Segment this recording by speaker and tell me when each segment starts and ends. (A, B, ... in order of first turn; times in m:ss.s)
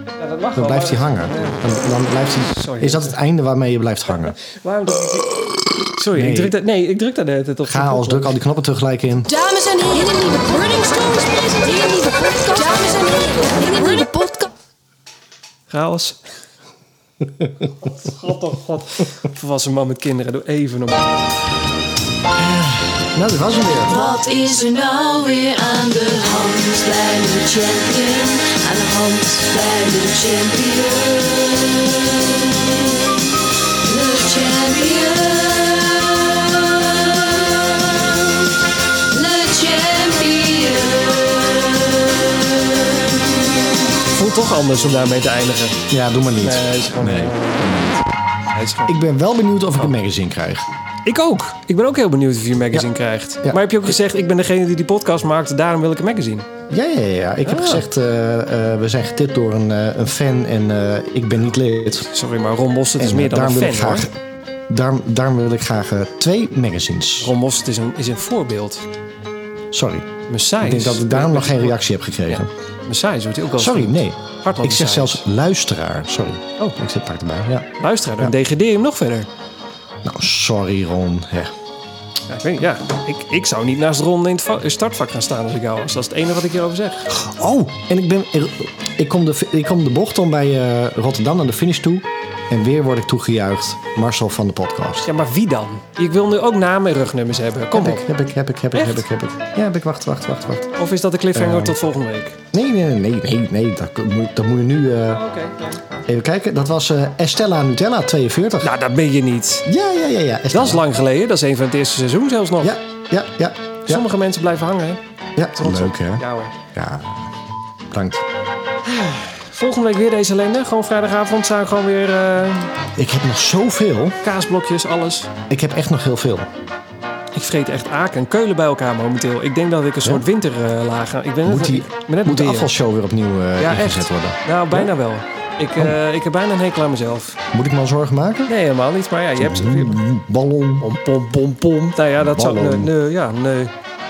0:00.2-0:01.7 A
0:00.6-0:04.4 B
0:02.5-0:03.2 A
0:04.4-0:05.4 A
0:05.1-0:06.6 B
0:05.9-0:08.3 A
0:07.7-0:09.3 B
0:09.3-0:14.5 C
0:15.7-0:16.2 A
0:17.7-0:21.3 A
0:23.1-0:23.9 B
0:23.8-0:33.0 C
0:33.7-0:43.6 C
0:44.1-0:45.8 A
0:45.9-0:48.0 B
0:46.4-0:48.9 A
0:48.9-0:50.7 B
0:51.0-0:56.5 A
0:56.7-1:02.1 B
0:57.4-0:57.8 A
1:02.1-1:04.1 A
1:03.0-1:04.1 B
1:04.7-1:07.3 B
1:07.2-1:08.8 A
1:09.7-1:12.5 B
1:10.3-1:15.2 A
1:13.6-1:18.3 B
1:17.8-1:19.3 A
1:20.0-1:21.5 B
1:22.3-1:27.1 A
1:27.1-1:35.1 B
1:35.0-1:38.1 A
1:37.7-1:40.7 B
1:38.7-1:39.0 A
1:40.7-1:42.4 A
1:41.3-1:41.7 B
1:42.5-1:45.2 B
1:45.1-1:45.8 A
1:46.0-1:48.7 B
1:48.6-1:49.7 A
1:49.6-1:50.8 B
1:50.5-1:52.7 A
1:52.6-1:54.0 B
1:53.9-1:55.0 A
1:55.4-1:57.3 B
1:55.5-1:56.6 A
1:57.9-1:58.2 B
1:58.8-2:02.7 A
2:03.0-2:04.2 B
2:04.2-2:05.3 A
2:05.5-2:06.5 B
2:07.3-2:12.7 A
2:11.4-2:14.9 B
2:13.6-2:17.4 A
2:17.5-2:18.5 B
2:18.5-2:20.0 A
2:19.4-2:20.9 B
2:20.8-2:23.7 A
2:22.2-2:22.9 B